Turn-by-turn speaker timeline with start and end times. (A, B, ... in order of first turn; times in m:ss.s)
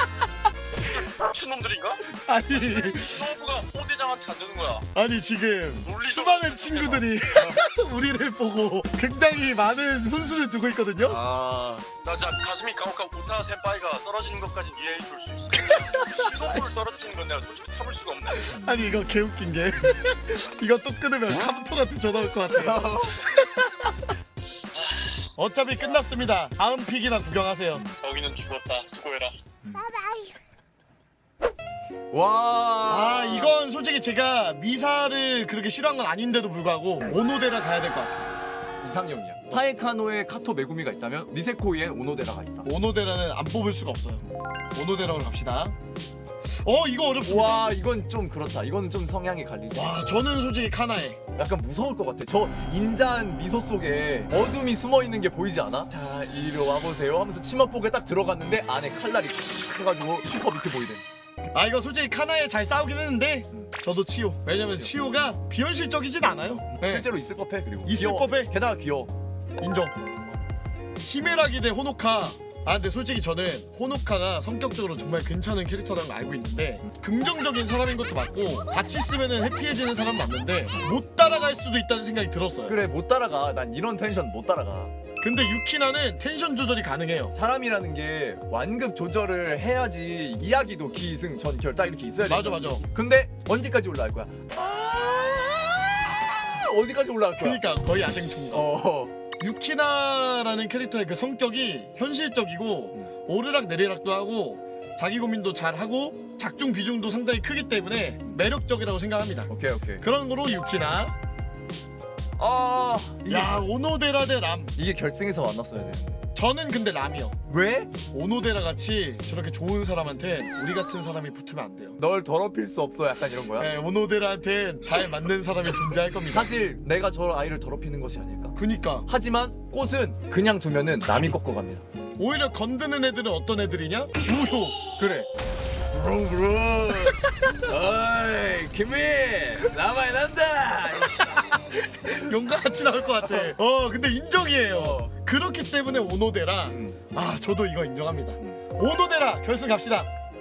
0:00.8-0:04.9 A
0:02.2-0:03.3 B
0:04.9-0:11.2 B
0:05.8-0:07.2 A
0:11.1-0:11.9 C
0:12.0-0:18.6 A
0:15.6-0:16.2 B
0:18.5-0:19.0 C
0:18.6-0:23.9 B
0:22.5-0:23.3 C
0:24.8-0:25.2 A
0:25.4-0:27.9 B
0:28.0-0:29.4 A
0:32.1-0:33.6 C
0:32.9-0:38.4 B
0:38.8-0:42.7 C
0:42.6-0:45.8 B
0:46.4-0:47.8 B
0:47.2-0:50.0 C
0:49.7-0:51.2 B
0:51.4-1:01.0 C
1:01.5-1:07.1 B
1:04.6-1:04.9 C
1:06.6-1:09.1 C
1:07.8-1:08.5 B
1:09.6-1:10.0 B
1:11.0-1:22.8 B
1:22.7-1:24.9 C
1:25.2-1:27.3 B
1:27.3-1:37.6 C
1:32.3-1:32.8 B
1:37.4-1:38.7 B
1:38.5-1:39.2 C
1:39.4-1:51.2 B
1:49.5-1:50.0 C
1:52.4-1:53.7 C
1:53.2-1:54.7 B
1:54.8-1:56.2 C
1:56.4-1:57.4 B
1:57.5-1:57.9 C
1:58.1-2:02.0 B
2:02.0-2:03.7 C
2:03.6-2:06.5 B
2:06.3-2:11.8 C
2:08.6-2:09.1 B
2:12.2-2:14.8 B
2:15.0-2:15.3 C
2:15.9-2:21.6 C
2:21.3-2:30.1 B
2:23.1-2:23.5 C
2:24.7-2:25.1 C
2:26.7-2:27.0 C